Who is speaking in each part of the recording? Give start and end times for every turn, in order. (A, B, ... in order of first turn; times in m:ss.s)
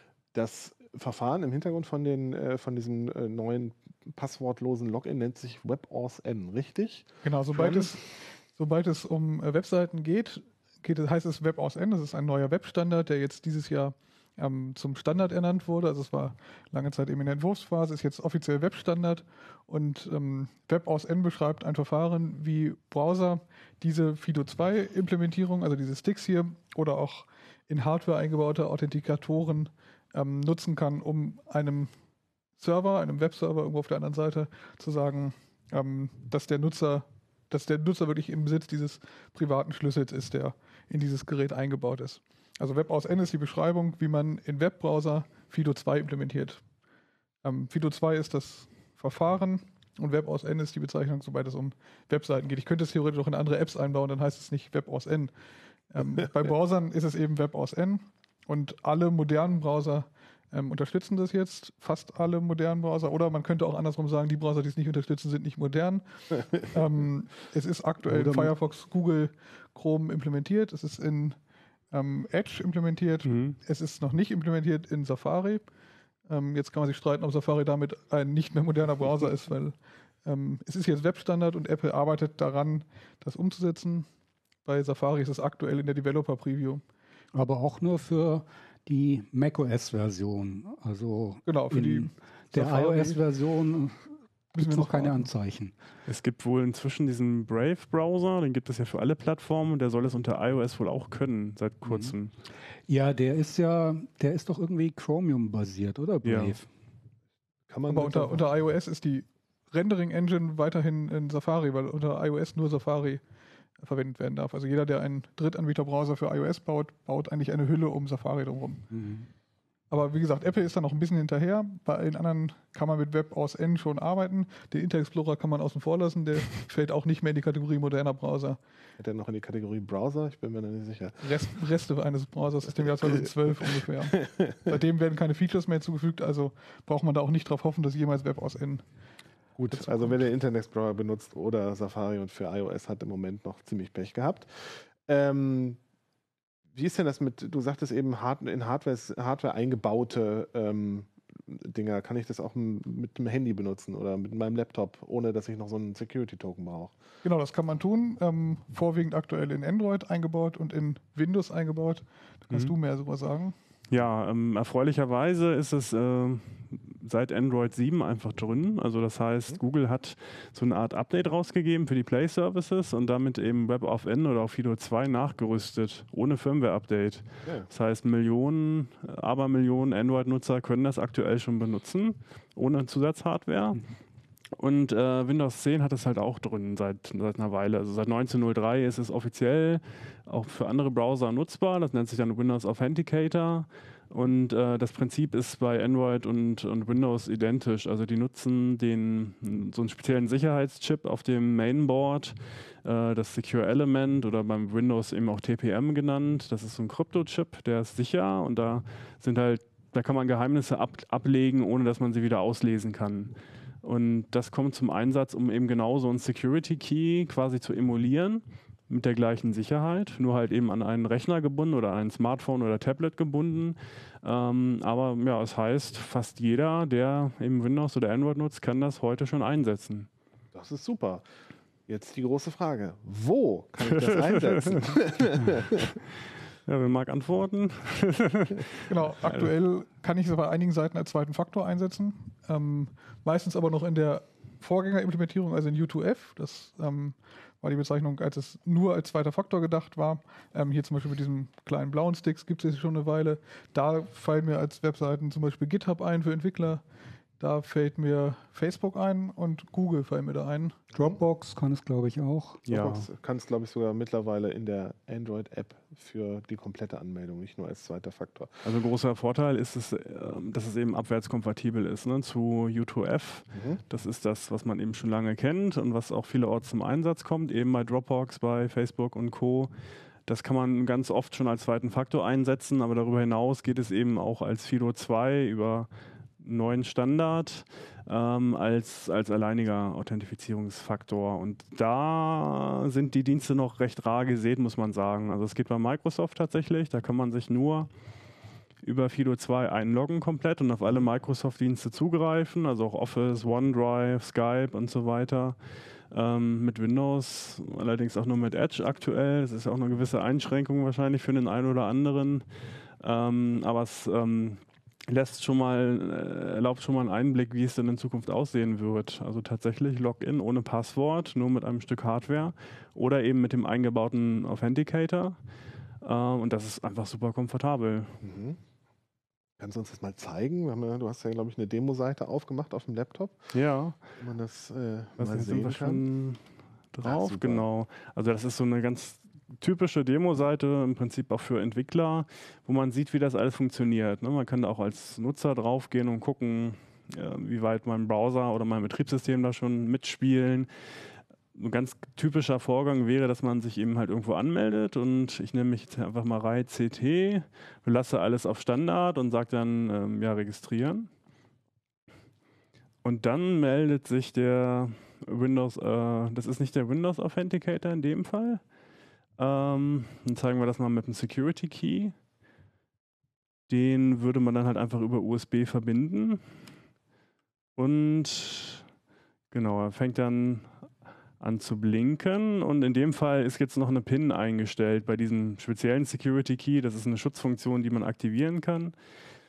0:00.3-0:07.9 A
0:07.2-0:31.9 B
0:32.6-0:46.6 B
0:47.4-0:55.3 B
0:55.9-1:11.4 B
1:08.1-1:08.5 C
1:11.9-1:15.6 B
1:13.2-1:13.6 D
1:16.3-1:24.0 B
1:24.6-1:26.8 B
1:27.3-1:34.0 C
1:31.5-1:33.2 B
1:34.6-1:35.2 B
1:34.6-1:35.7 C
1:36.1-1:42.3 D
1:41.9-1:42.1 C
1:42.9-1:46.7 C
1:46.2-1:46.6 D
1:47.7-1:48.4 A
1:47.9-1:53.2 B
1:53.8-1:58.9 B
1:58.9-1:59.2 C
1:59.9-2:08.6 B
2:09.0-2:11.3 A
2:11.2-2:18.8 B
2:14.2-2:14.6 A
2:19.6-2:25.8 A
2:19.7-2:20.2 B
2:26.7-2:36.9 A
2:37.2-2:43.6 B
2:43.9-3:03.8 D
3:04.6-3:50.1 D
3:50.5-3:51.2 A
3:51.9-3:55.9 A
3:53.9-3:56.0 D
3:56.7-3:59.5 D
3:58.9-4:16.8 B
4:17.4-4:20.9 B
4:20.9-4:22.6 C
4:22.7-4:23.1 D
4:22.7-4:28.6 A
4:28.6-4:39.7 D
4:33.5-4:33.8 A
4:40.3-4:57.9 D
4:58.8-5:05.6 D
5:06.1-5:12.4 D
5:13.0-5:25.4 D
5:26.0-5:28.2 D
5:28.2-5:28.6 A
5:29.6-5:33.4 A
5:33.5-5:34.0 D
5:34.2-5:36.0 A
5:35.2-5:36.4 D
5:36.9-5:50.7 D
5:37.0-5:37.6 A
5:51.6-6:01.1 D
6:03.0-6:08.6 D
6:09.4-6:12.1 D
6:13.7-6:16.4 D
6:17.8-6:18.8 D
6:19.5-6:20.7 D
6:21.4-6:28.9 D